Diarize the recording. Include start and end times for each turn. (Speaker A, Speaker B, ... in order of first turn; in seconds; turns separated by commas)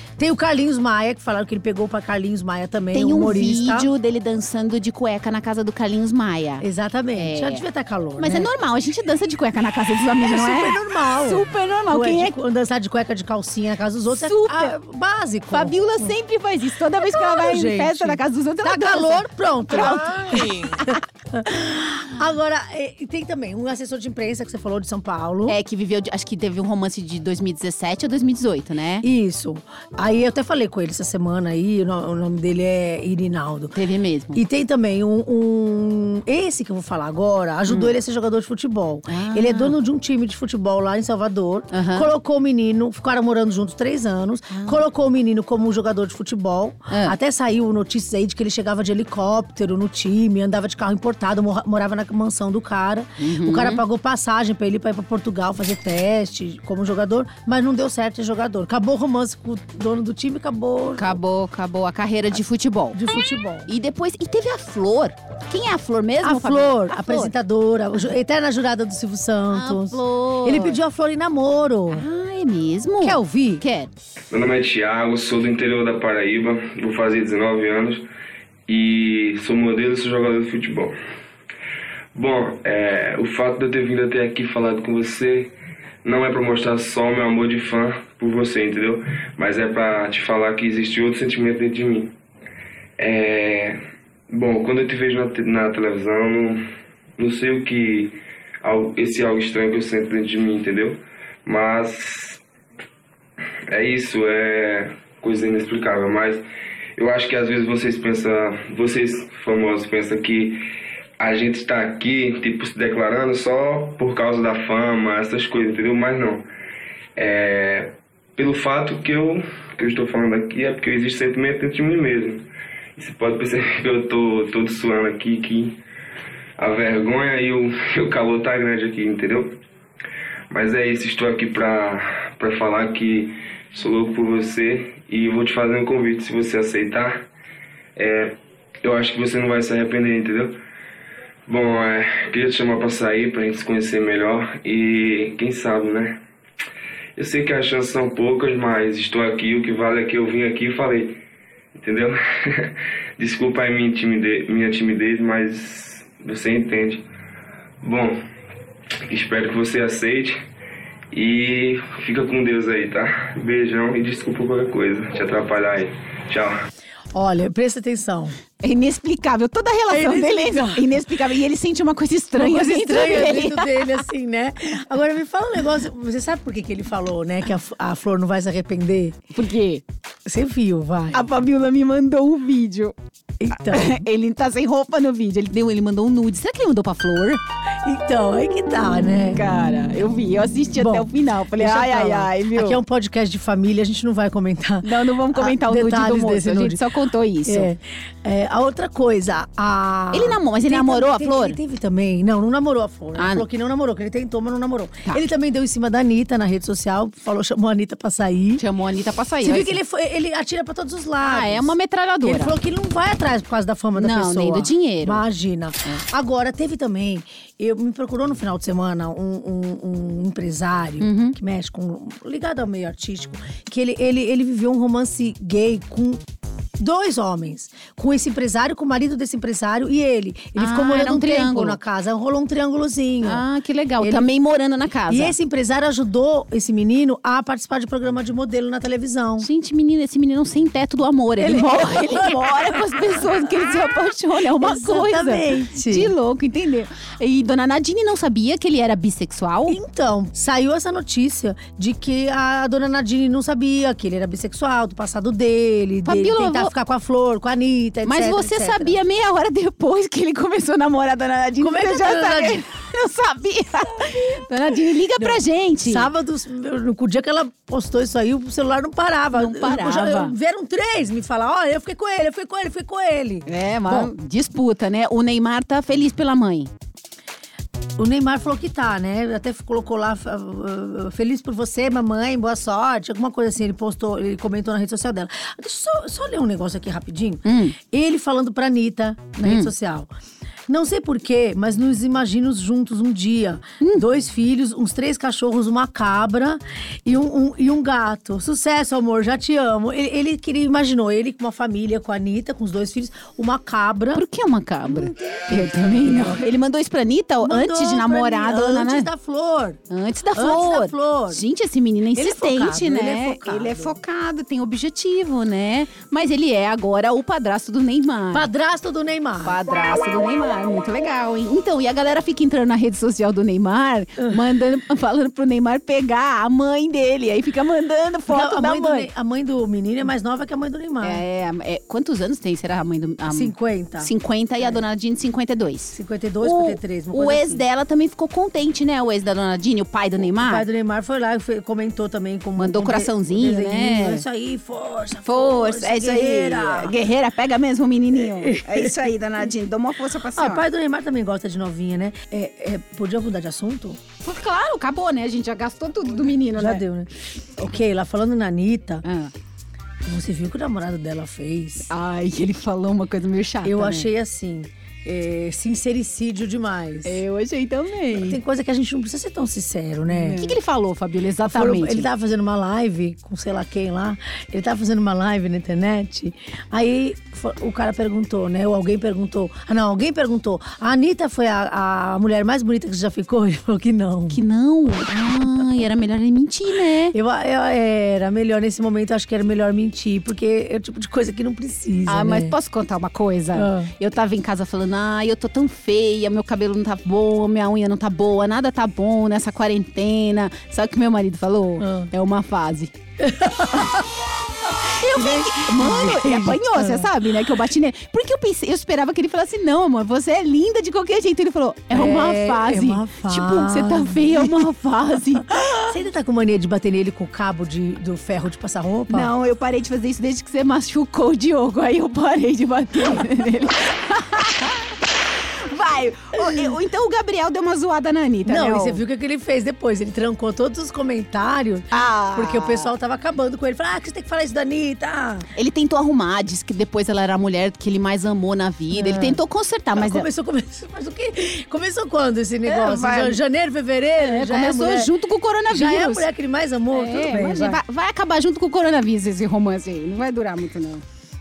Speaker A: 0.2-3.9, Speaker B: 2.9-7.7, Speaker A: 6.6-8.5, Speaker B: 8.2-12.4, Speaker A: 10.2-16.1, Speaker B: 14.1-14.8, Speaker B: 15.5-20.9, Speaker A: 17.0-25.6, Speaker B: 25.5-29.1, Speaker A: 29.0-33.8, Speaker B: 33.7-34.4, Speaker A: 34.3-61.2, Speaker B: 37.7-37.9, Speaker B: 39.1-39.7, Speaker B: 41.7-42.1, Speaker B: 44.5-44.8, Speaker B: 46.9-47.2, Speaker B: 53.2-53.8, Speaker B: 60.9-63.0, Speaker A: 62.9-63.7, Speaker B: 63.7-67.3, Speaker A: 66.2-72.0, Speaker B: 69.5-70.8, Speaker B: 71.9-73.9, Speaker A: 73.0-73.6, Speaker C: 74.3-78.0, Speaker C: 78.7-81.0, Speaker C: 82.1-85.5, Speaker C: 86.0-92.1, Speaker C: 93.0-93.8, Speaker C: 94.3-96.6, Speaker C: 97.2-102.4, Speaker C: 103.7-106.4, Speaker C: 107.0-110.6, Speaker C: 111.2-116.5, Speaker C: 117.2-125.8, Speaker C: 126.6-129.6, Speaker C: 130.5-137.2, Speaker C: 137.9-140.6, Speaker C: 141.5-146.2, Speaker C: 147.2-151.2, Speaker C: 151.8-157.0, Speaker C: 157.8-158.2, Speaker C: 159.1-160.4, Speaker C: 161.1-166.6, Speaker A: 167.1-168.4, Speaker B: 168.6-174.0, Speaker A: 169.9-170.9, Speaker A: 172.3-179.2, Speaker B: 179.3-179.8, Speaker A: 180.2-181.2, Speaker B: 181.1-182.9, Speaker A: 183.4-184.0, Speaker B: 183.5-187.4, Speaker A: 187.8-189.4, Speaker B: 189.3-192.8, Speaker A: 190.8-196.8, Speaker B: 194.8-197.7, Speaker A: 197.4-208.6, Speaker B: 200.1-201.6, Speaker B: 203.2-203.4, Speaker B: 208.6-209.8, Speaker A: 209.4-226.2, Speaker B: 211.2-212.6, Speaker B: 213.9-215.2, Speaker B: 221.0-221.4, Speaker A: 226.8-233.4, Speaker B: 230.6-231.8, Speaker B: 233.2-235.3, Speaker A: 234.0-234.3, Speaker A: 235.1-239.5, Speaker B: 239.4-249.8, Speaker A: 241.4-243.2, Speaker A: 244.6-246.1, Speaker A: 249.7-259.0, Speaker B: 256.0-256.7, Speaker B: 258.0-266.1, Speaker A: 261.6-262.6, Speaker A: 265.2-274.1, Speaker B: 269.3-270.3, Speaker B: 273.5-276.7, Speaker A: 278.0-290.1, Speaker B: 287.4-287.8, Speaker B: 289.4-289.7, Speaker A: 290.7-304.2, Speaker B: 304.1-309.1, Speaker A: 304.9-306.5, Speaker A: 307.4-309.8, Speaker B: 309.9-318.5, Speaker A: 310.3-311.4, Speaker A: 312.1-313.9, Speaker A: 318.3-319.6, Speaker B: 319.4-329.1, Speaker A: 328.3-331.2, Speaker B: 331.0-340.6, Speaker A: 333.3-334.8, Speaker A: 335.9-337.6, Speaker A: 340.4-346.9, Speaker B: 342.6-344.2, Speaker B: 345.2-350.6, Speaker A: 348.1-349.0, Speaker A: 350.3-354.0, Speaker B: 354.2-356.8, Speaker A: 356.5-359.0, Speaker B: 359.0-359.3, Speaker A: 360.0-361.9, Speaker B: 361.9-364.1, Speaker A: 363.6-367.2, Speaker B: 367.0-368.4, Speaker A: 368.1-370.5, Speaker B: 370.1-372.1, Speaker A: 371.4-384.4, Speaker B: 384.3-387.1, Speaker A: 387.1-392.5, Speaker B: 392.1-402.9, Speaker A: 393.5-393.9, Speaker A: 401.8-402.1, Speaker A: 403.2-404.1, Speaker B: 404.8-415.9, Speaker A: 404.9-407.1, Speaker A: 411.9-414.7, Speaker A: 415.3-419.3, Speaker B: 419.1-424.9, Speaker B: 425.6-429.0, Speaker A: 426.4-426.7, Speaker A: 428.4-435.5, Speaker B: 431.9-432.9, Speaker B: 435.5-440.3, Speaker A: 438.9-439.4, Speaker A: 439.9-445.1, Speaker B: 442.6-443.4, Speaker B: 444.2-446.3, Speaker A: 445.7-447.8, Speaker B: 446.9-451.0